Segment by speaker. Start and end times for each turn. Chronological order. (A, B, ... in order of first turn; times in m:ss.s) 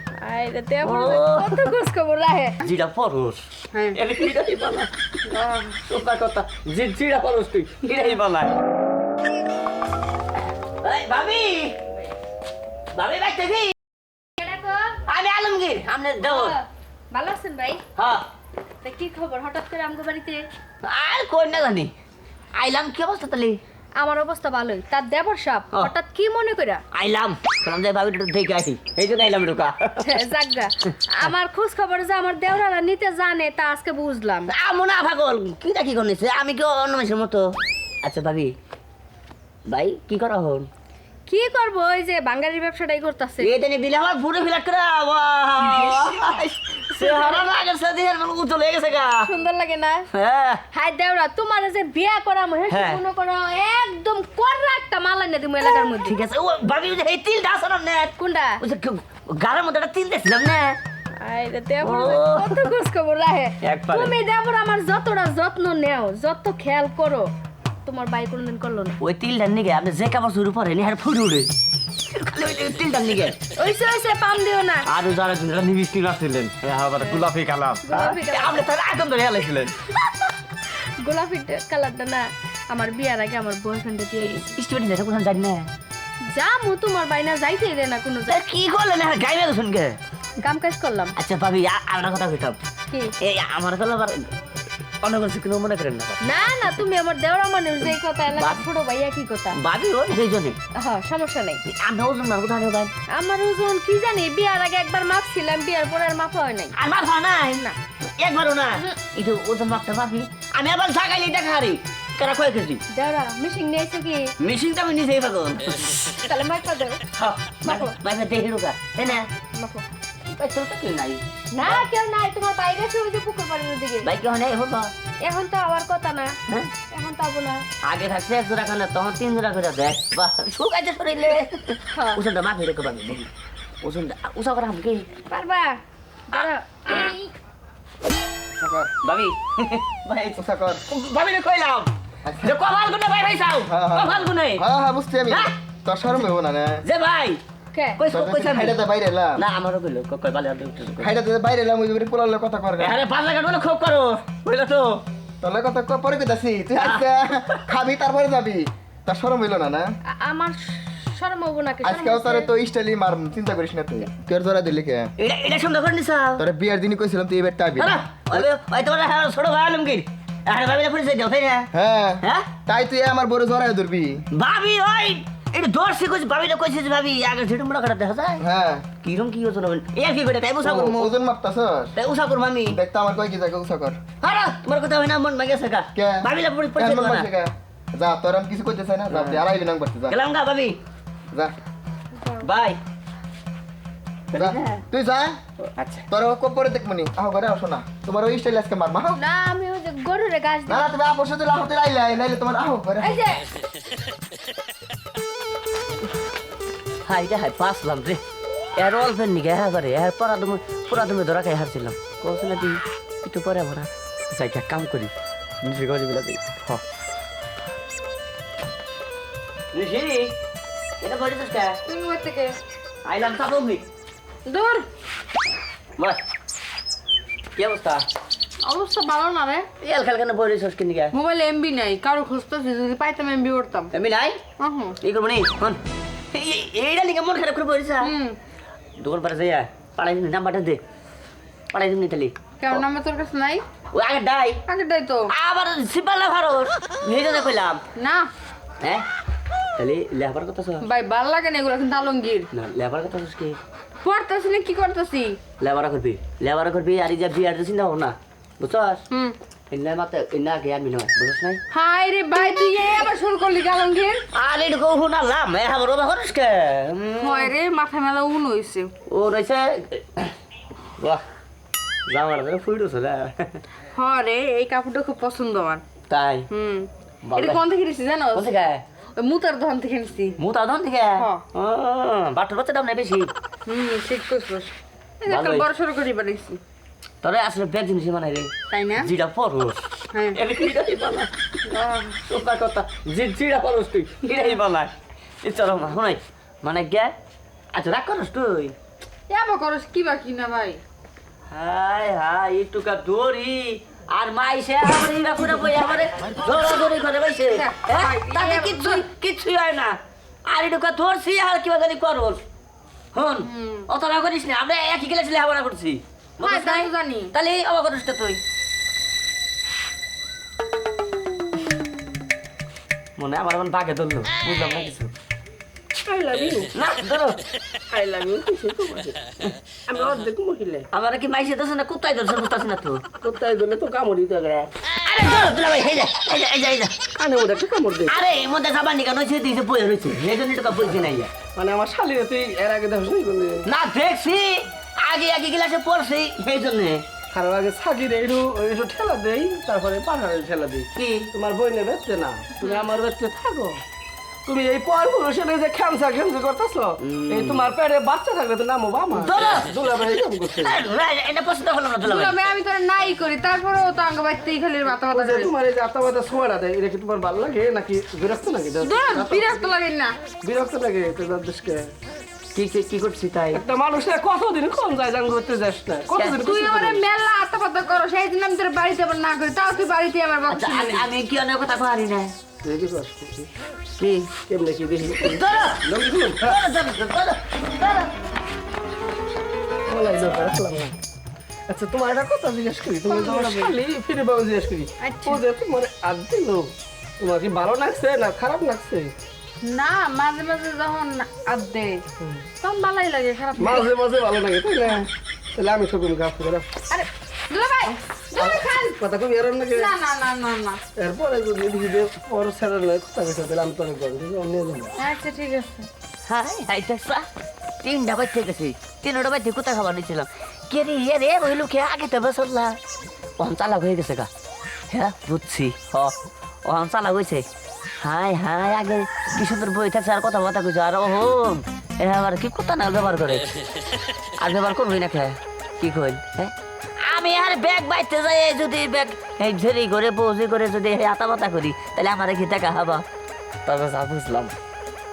0:00.2-0:02.6 A
0:00.8-0:01.7 B
0:02.6-0:04.9 B
0:03.7-0:04.0 C
0:05.3-0:05.8 C
0:05.8-0:08.5 B
0:10.8-0:11.8 B
0:12.9-0:13.7 B
0:14.4-0:15.0 A
0:15.1-0:16.6 B
0:16.2-0:17.8 A
0:18.0-0:18.2 B
0:18.8-0:20.5 A
0:20.8-0:21.9 B
0:22.5-0:23.6 B
0:24.0-0:26.8 A
0:26.9-0:30.2 B
0:30.0-0:34.5 A
0:34.5-0:38.5 B
0:39.7-0:40.7 B
0:41.3-0:43.5 A
0:43.4-0:49.3 B
0:45.6-0:46.2 A
0:46.9-0:47.5 A
0:49.2-0:50.1 A
0:50.1-0:50.6 B
0:50.7-0:56.2 A
0:52.7-0:53.0 B
0:55.6-1:00.8 B
0:58.2-0:58.6 A
1:01.2-1:07.3 A
1:01.8-1:02.7 B
1:03.6-1:04.1 B
1:07.8-1:09.0 A
1:09.0-1:11.5 B
1:12.1-1:13.4 B
1:13.6-1:14.9 A
1:14.8-1:19.9 B
1:17.0-1:17.3 A
1:17.8-1:18.7 A
1:21.0-1:24.5 A
1:24.2-1:25.7 B
1:26.3-1:28.4 A
1:28.3-1:30.0 B
1:30.4-1:31.1 A
1:31.2-1:32.6 B
1:33.2-1:34.3 B
1:35.0-1:36.2 B
1:36.2-1:39.6 A
1:38.3-1:38.6 B
1:39.5-1:40.6 B
1:40.7-1:41.6 A
1:41.6-1:42.9 B
1:43.1-1:46.7 A
1:46.7-1:47.6 B
1:48.2-1:52.8 B
1:52.9-1:54.3 A
1:54.4-1:56.0 B
1:56.1-1:57.0 A
1:57.1-1:59.3 B
1:57.6-1:57.9 A
1:59.5-1:59.8 A
2:00.3-2:01.8 B
2:01.5-2:04.1 A
2:04.0-2:04.9 B
2:05.2-2:06.3 A
2:06.9-2:07.6 A
2:07.8-2:13.3 B
2:11.9-2:12.2 A
2:13.8-2:15.1 B
2:15.3-2:17.3 A
2:16.3-2:17.0 B
2:18.6-2:18.9 D
2:19.0-2:24.6 B
2:20.4-2:20.8 D
2:22.2-2:22.6 D
2:23.7-2:26.8 D
2:25.3-2:25.5 B
2:26.8-2:27.4 B
2:27.7-2:28.0 A
2:28.0-2:28.8 B
2:28.1-2:29.4 D
2:29.4-2:31.1 B
2:31.0-2:33.0 D
2:32.8-2:35.0 B
2:35.4-2:39.9 D
2:36.8-2:37.6 B
2:40.1-2:42.5 A
2:41.8-2:45.1 D
2:45.2-2:46.4 B
2:46.4-2:48.4 D
2:47.8-2:51.7 B
2:51.7-2:54.2 D
2:52.2-2:52.5 B
2:54.3-2:58.4 B
2:58.4-2:58.9 D
2:59.0-3:01.1 B
3:00.6-3:01.9 D
3:01.9-3:02.8 B
3:02.6-3:04.0 D
3:04.2-3:07.3 B
3:05.9-3:10.2 D
3:09.1-3:09.4 B
3:10.1-3:10.8 B
3:12.2-3:12.5 A
3:12.4-3:12.8 B
3:14.3-3:14.8 B
3:14.3-3:15.4 D
3:15.8-3:16.0 B
3:16.1-3:19.2 D
3:19.1-3:20.9 A
3:20.7-3:23.2 D
3:23.0-3:23.4 A
3:27.0-3:28.2 B
3:28.8-3:36.8 B
3:39.7-3:40.3 B
3:41.0-3:41.8 B
3:41.8-3:42.6 C
3:43.0-3:43.8 B
3:44.4-3:44.8 C
3:47.6-3:48.0 B
3:48.6-3:49.7 C
3:49.8-3:51.1 B
3:51.1-3:53.9 C
3:53.9-3:54.4 B
3:54.6-3:55.0 C
3:55.0-3:55.8 B
3:56.3-3:58.1 B
3:58.0-3:58.4 C
3:59.0-4:00.8 B
4:01.7-4:02.8 B
4:02.6-4:03.6 C
4:03.9-4:04.6 B
4:04.7-4:05.3 C
4:05.3-4:07.8 B
4:07.9-4:08.3 C
4:08.8-4:09.0 B
4:09.8-4:10.8 B
4:10.8-4:12.5 C
4:12.5-4:13.6 B
4:14.0-4:15.4 C
4:15.6-4:19.0 B
4:19.1-4:19.4 C
4:19.7-4:21.6 B
4:21.7-4:24.2 C
4:24.3-4:27.5 B
4:27.2-4:28.9 C
4:29.1-4:30.3 B
4:31.0-4:31.2 B
4:32.1-4:33.6 B
4:33.9-4:35.8 C
4:36.1-4:36.5 B
4:36.5-4:38.5 C
4:37.2-4:37.6 B
4:38.3-4:38.8 B
4:39.2-4:40.4 C
4:40.4-4:43.3 B
4:41.2-4:41.4 C
4:43.6-4:46.6 C
4:45.3-4:45.7 B
4:47.2-4:51.3 B
4:48.7-4:49.1 C
4:50.1-4:50.4 C
4:51.7-4:52.2 C
4:52.3-4:57.1 B
4:57.7-4:58.7 B
4:59.3-5:00.8 C
5:01.5-5:12.4 B
5:07.5-5:09.0 C
5:13.1-5:18.4 B
5:13.4-5:13.9 C
5:16.4-5:17.3 C
5:23.2-5:25.1 B
5:26.0-5:26.7 E
5:26.7-5:27.4 B
5:27.9-5:29.2 E
5:29.9-5:30.9 E
5:30.9-5:33.0 B
5:33.2-5:34.7 E
5:34.9-5:37.0 B
5:37.1-5:38.2 E
5:38.1-5:41.3 B
5:41.5-5:43.7 E
5:43.6-5:47.0 B
5:47.3-5:53.8 E
5:50.9-5:51.3 B
5:54.4-6:00.8 E
5:57.0-5:57.7 B
5:59.1-5:59.7 B
6:00.6-6:02.4 B
6:02.0-6:05.5 C
6:04.9-6:09.6 E
6:08.8-6:10.3 C
6:10.3-6:11.9 E
6:12.5-6:13.6 B
6:13.5-6:17.0 E
6:16.1-6:16.4 B
6:16.4-6:21.1 C
6:20.5-6:22.3 B
6:22.6-6:23.5 E
6:24.0-6:24.3 B
6:24.4-6:26.6 E
6:25.2-6:28.1 B
6:29.9-6:31.0 E
6:31.7-6:39.1 E
6:33.0-6:33.8 C
6:35.0-6:35.4 C
6:39.6-6:42.0 C
6:42.2-6:42.5 E
6:42.6-6:43.9 C
6:43.6-6:46.8 E
6:46.9-6:49.0 C
6:48.4-6:49.9 E
6:49.7-6:50.8 C
6:50.9-6:54.9 E
6:55.0-6:55.9 C
6:56.2-6:57.3 B
6:57.8-7:02.8 B
7:03.4-7:04.3 B
7:04.9-7:06.1 B
7:06.6-7:07.4 B
7:08.0-7:13.4 B
7:14.4-7:23.0 B
7:23.6-7:24.5 B